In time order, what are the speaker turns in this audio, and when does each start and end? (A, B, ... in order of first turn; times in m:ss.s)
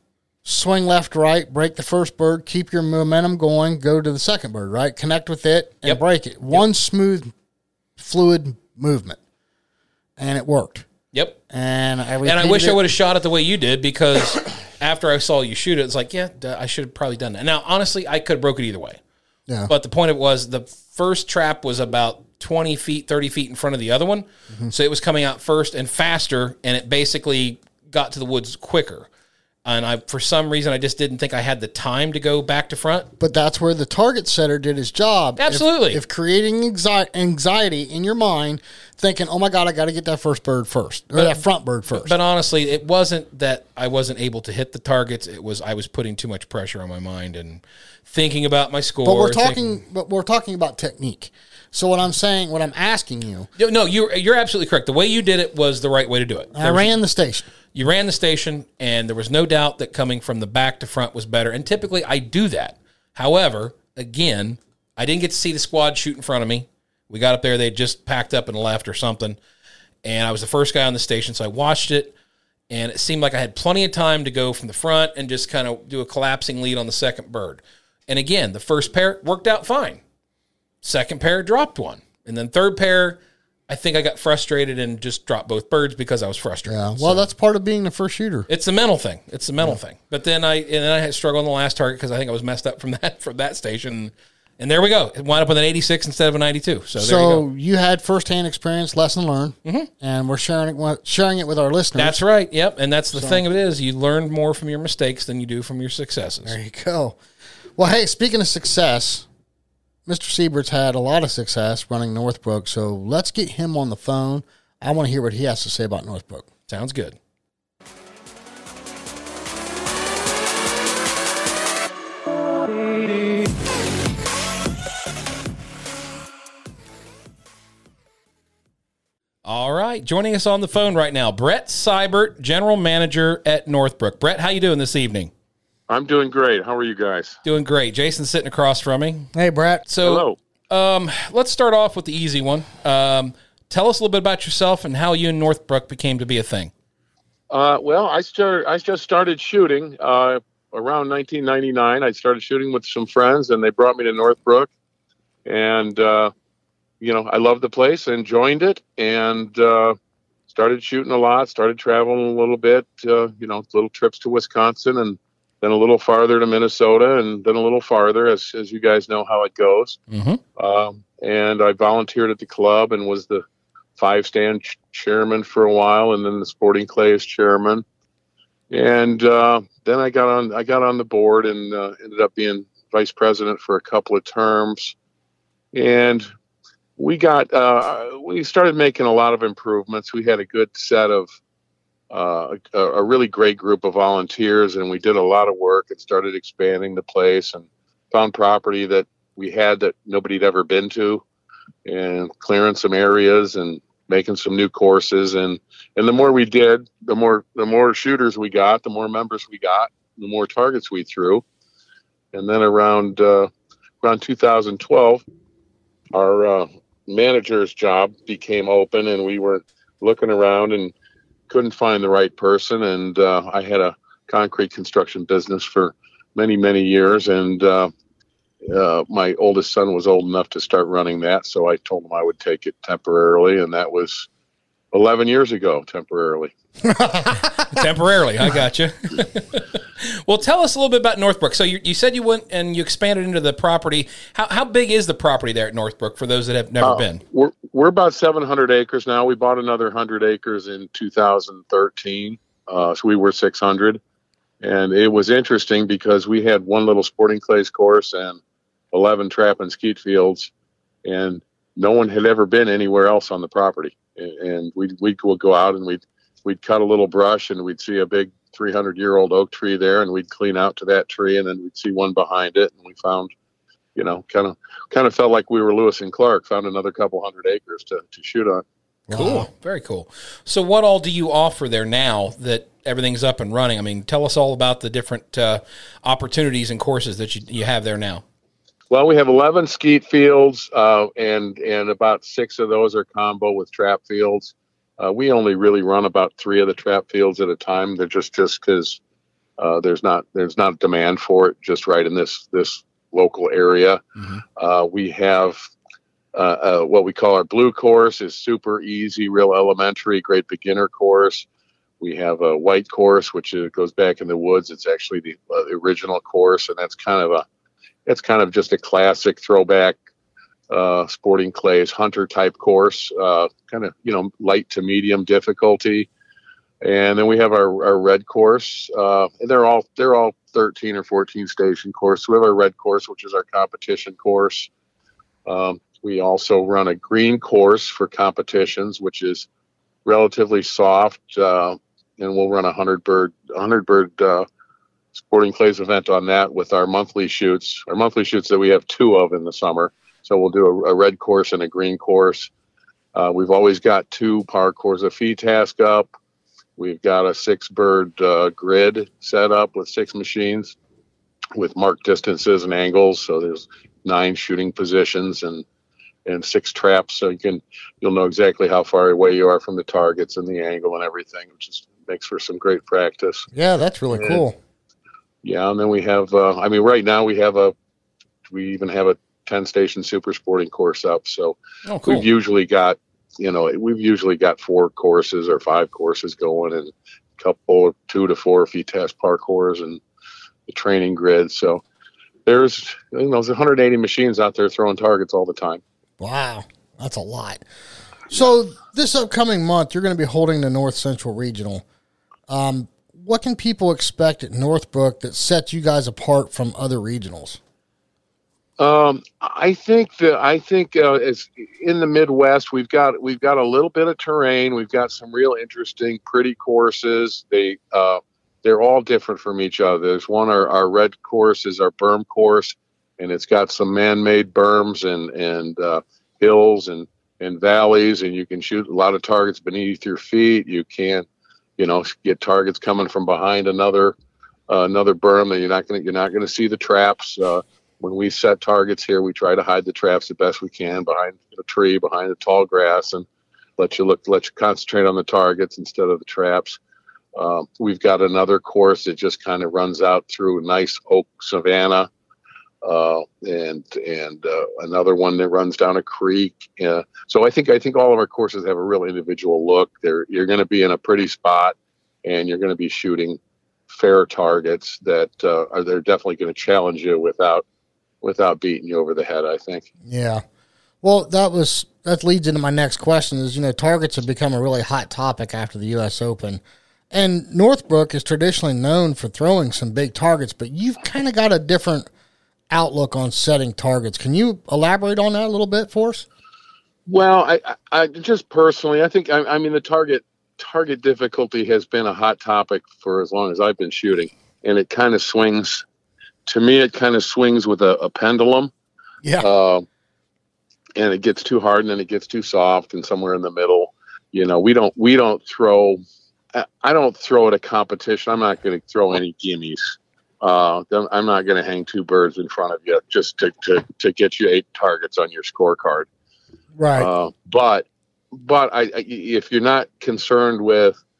0:00.4-0:07.3 A
0:05.8-0:06.6 B
0:08.0-0:09.2 A
0:10.2-0:10.9 A
0:11.1-0:11.4 B
0:11.5-0:12.8 A
0:12.2-0:19.0 B
0:19.7-0:29.1 B
0:29.6-0:33.1 B
0:33.2-0:42.1 A
0:35.4-0:36.0 B
0:41.1-0:49.6 B
0:49.0-0:53.5 A
0:53.6-0:56.9 B
0:56.5-0:57.5 A
0:57.7-1:09.4 B
1:10.0-1:12.1 B
1:12.7-1:20.0 B
1:20.8-1:27.2 B
1:26.7-1:28.5 A
1:28.5-1:37.4 B
1:37.0-1:42.2 A
1:41.9-1:46.6 B
1:43.1-1:43.4 A
1:46.4-1:47.2 A
1:47.8-1:49.2 A
1:50.1-1:56.5 A
1:56.7-1:57.2 B
2:09.4-2:15.3 B
2:15.9-2:17.4 C
2:17.4-2:19.3 B
2:19.3-2:19.8 A
2:19.9-2:26.7 B
2:20.0-2:20.4 C
2:27.5-2:34.7 C
2:35.4-2:36.3 C
2:37.0-2:40.0 C
2:40.5-2:50.0 C
2:50.1-2:50.4 B
2:50.6-2:53.4 C
2:54.0-2:57.8 C
2:58.7-3:04.9 C
3:05.7-3:06.2 C
3:07.0-3:11.3 C
3:12.1-3:21.2 C
3:21.8-3:31.4 C
3:32.3-3:33.5 C
3:34.0-3:35.2 C
3:36.1-3:40.9 C
3:41.5-3:47.9 C
3:48.6-3:54.3 C
3:54.9-3:56.5 C
3:56.8-3:57.8 A
3:57.7-4:07.2 B
4:06.8-4:14.0 C
4:14.6-4:18.4 C
4:18.9-4:20.5 C
4:21.0-4:33.3 C
4:34.0-4:38.6 C
4:39.1-4:39.5 A
4:39.1-4:48.2 B
4:48.9-4:59.0 C
4:59.6-5:04.0 C
5:04.6-5:05.6 C
5:06.3-5:11.4 C
5:12.0-5:17.4 C
5:18.0-5:20.0 C
5:20.7-5:26.1 C
5:26.8-5:34.7 C
5:35.4-5:39.5 C
5:40.0-5:44.4 C
5:45.1-5:52.5 C
5:53.1-5:56.1 C
5:56.8-6:00.7 C
6:01.5-6:05.6 C
6:06.2-6:13.5 C
6:13.5-6:14.6 A
6:14.1-6:14.4 C
6:15.4-6:17.7 C
6:18.5-6:30.0 C
6:21.8-6:22.3 B
6:30.7-6:31.8 C
6:32.4-6:35.8 C
6:36.2-6:37.6 A
6:38.3-6:41.8 A
6:42.5-6:47.6 A
6:48.8-7:11.2 C
7:11.8-7:14.2 C
7:14.7-7:23.2 C
7:23.8-7:26.8 C
7:27.3-7:32.1 C
7:32.8-7:43.4 C
7:43.9-7:47.6 C
7:48.2-7:49.9 C
7:50.0-7:50.4 A
7:51.0-8:02.1 A
8:02.7-8:06.2 A
8:07.0-8:15.8 C
8:16.4-8:18.7 C
8:19.4-8:19.8 C
8:21.0-8:26.0 C
8:26.5-8:36.1 C
8:36.8-8:37.1 A
8:37.0-8:41.0 C